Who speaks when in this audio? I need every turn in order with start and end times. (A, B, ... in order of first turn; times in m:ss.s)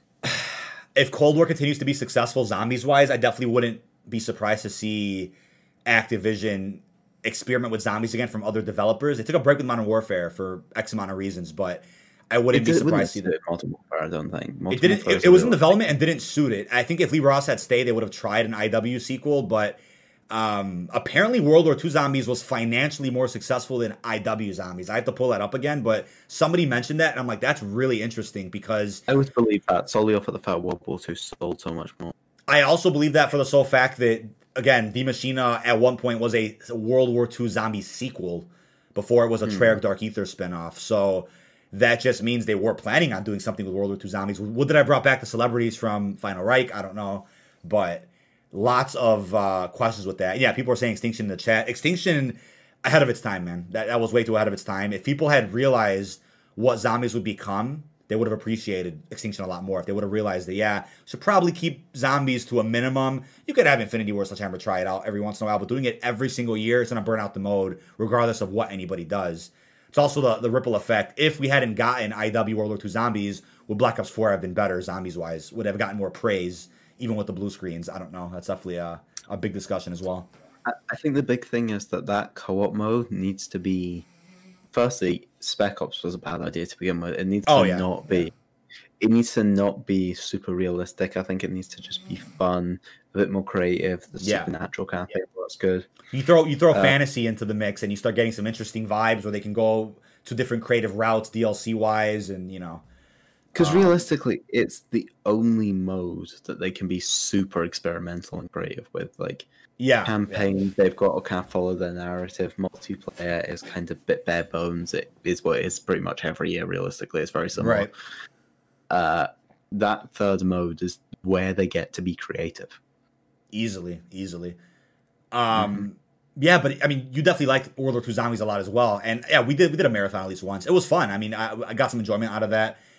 0:00.2-0:05.3 A
0:05.8-0:13.3 A
0:12.5-0:15.7 B
0:14.7-0:19.8 A
0:20.3-0:29.0 A
0:29.1-0:32.1 B
0:32.5-1:20.3 A
0:39.4-0:39.8 B
1:20.6-1:24.0 B
1:24.7-1:28.3 B
1:27.4-1:28.3 A
1:29.0-1:35.9 B
1:34.2-1:34.5 A
1:36.1-1:42.8 A
1:36.7-1:37.0 B
1:43.5-1:49.5 B
1:43.6-1:44.0 A
1:49.8-1:50.5 A
1:50.0-1:57.9 B
1:57.6-1:57.9 A
1:58.9-2:02.8 B
2:03.5-2:04.6 A
2:05.3-2:12.8 A
2:05.5-2:05.8 B